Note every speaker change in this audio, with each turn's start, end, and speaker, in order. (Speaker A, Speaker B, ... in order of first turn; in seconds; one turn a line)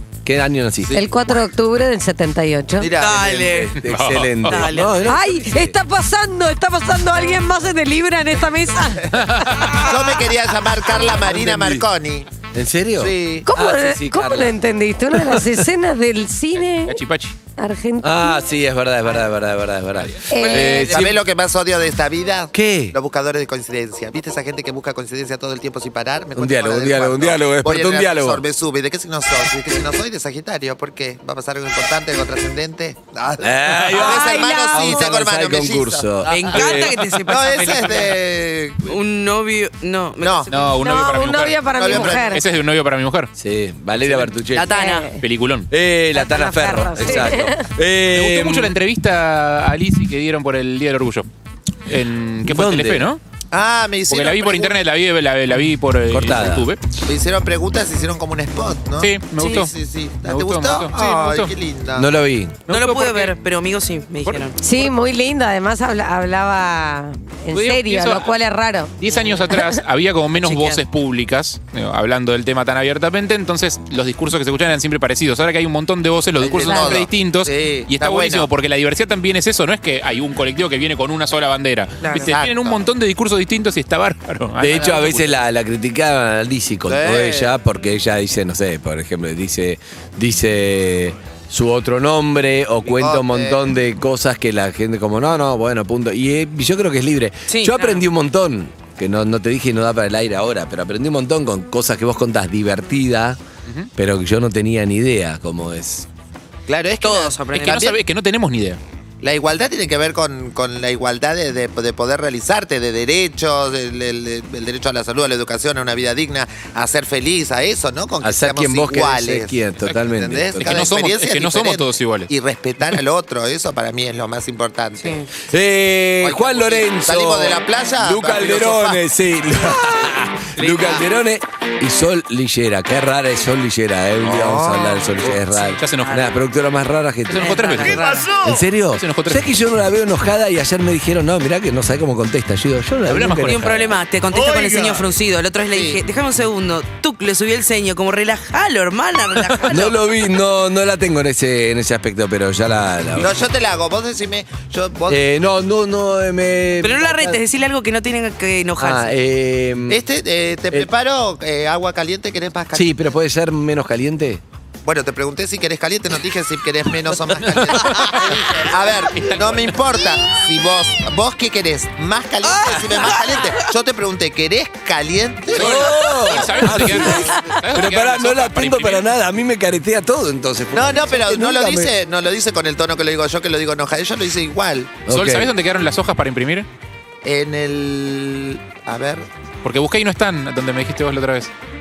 Speaker A: 0.2-1.1
Speaker B: 0.9-2.9
Speaker C: 2.8-3.7
Speaker D: 3.0-3.7
Speaker A: 3.5-5.8
Speaker E: 3.8-4.7
Speaker D: 4.4-5.1
Speaker B: 5.0-9.2
Speaker E: 9.1-9.8
Speaker C: 9.6-12.3
Speaker A: 11.0-11.9
Speaker A: 12.5-14.6
Speaker C: 13.0-13.5
Speaker B: 13.5-17.0
Speaker A: 15.1-15.6
Speaker E: 16.8-17.4
Speaker B: 17.6-18.4
Speaker A: 18.0-21.2
Speaker B: 20.3-20.9
Speaker D: 20.4-21.1
Speaker C: 20.9-39.0
Speaker A: 22.5-23.0
Speaker A: 26.4-28.4
Speaker A: 33.4-37.2
Speaker B: 33.9-35.1
Speaker D: 36.3-38.2
Speaker D: 38.8-40.8
Speaker C: 40.2-40.5
Speaker E: 40.5-43.3
Speaker B: 40.8-42.4
Speaker C: 41.7-42.5
Speaker A: 43.4-44.7
Speaker D: 44.5-45.1
Speaker B: 44.7-45.2
Speaker E: 45.2-45.7
Speaker A: 45.7-48.8
Speaker B: 46.1-47.7
Speaker E: 48.1-51.3
Speaker E: 51.9-53.2
Speaker A: 52.4-53.1
Speaker C: 53.5-54.8
Speaker E: 54.1-56.8
Speaker A: 56.1-56.7
Speaker C: 57.1-62.1
Speaker E: 59.0-61.5
Speaker A: 61.9-62.6
Speaker E: 62.7-63.3
Speaker D: 62.7-64.6
Speaker B: 64.6-69.8
Speaker E: 67.5-68.3
Speaker E: 69.0-85.3
Speaker D: 69.1-69.3
Speaker D: 70.4-70.8
Speaker C: 76.4-78.5
Speaker B: 76.7-77.0
Speaker D: 82.0-82.3
Speaker C: 82.2-82.9
Speaker A: 84.6-103.4
Speaker C: 86.9-87.5
Speaker C: 92.9-93.6
Speaker D: 97.5-98.0
Speaker A: 104.0-106.1
Speaker C: 106.7-108.0
Speaker D: 107.0-108.0
Speaker E: 107.5-108.8
Speaker C: 109.2-125.3
Speaker A: 118.2-120.8
Speaker E: 120.6-122.3
Speaker D: 125.0-125.2
Speaker A: 125.5-144.0
Speaker C: 126.2-129.0
Speaker D: 130.6-131.0
Speaker C: 134.2-135.2
Speaker E: 135.6-136.2
Speaker E: 137.3-138.2
Speaker D: 137.4-138.4
Speaker C: 138.1-138.5
Speaker E: 139.0-139.5
Speaker E: 143.1-143.7
Speaker D: 143.4-150.0
Speaker C: 144.3-145.0
Speaker C: 145.7-146.0
Speaker A: 149.7-153.4
Speaker C: 153.2-155.2
Speaker A: 155.1-157.4
Speaker D: 156.8-159.1
Speaker A: 158.8-160.0
Speaker C: 159.9-163.0
Speaker A: 162.7-164.4
Speaker C: 164.8-177.2
Speaker E: 167.5-168.4
Speaker E: 169.1-169.8
Speaker D: 172.4-173.7
Speaker A: 175.5-181.9
Speaker E: 175.5-179.0
Speaker C: 180.7-185.0
Speaker A: 185.1-185.5
Speaker E: 185.1-186.7
Speaker C: 187.2-189.2
Speaker E: 189.6-191.5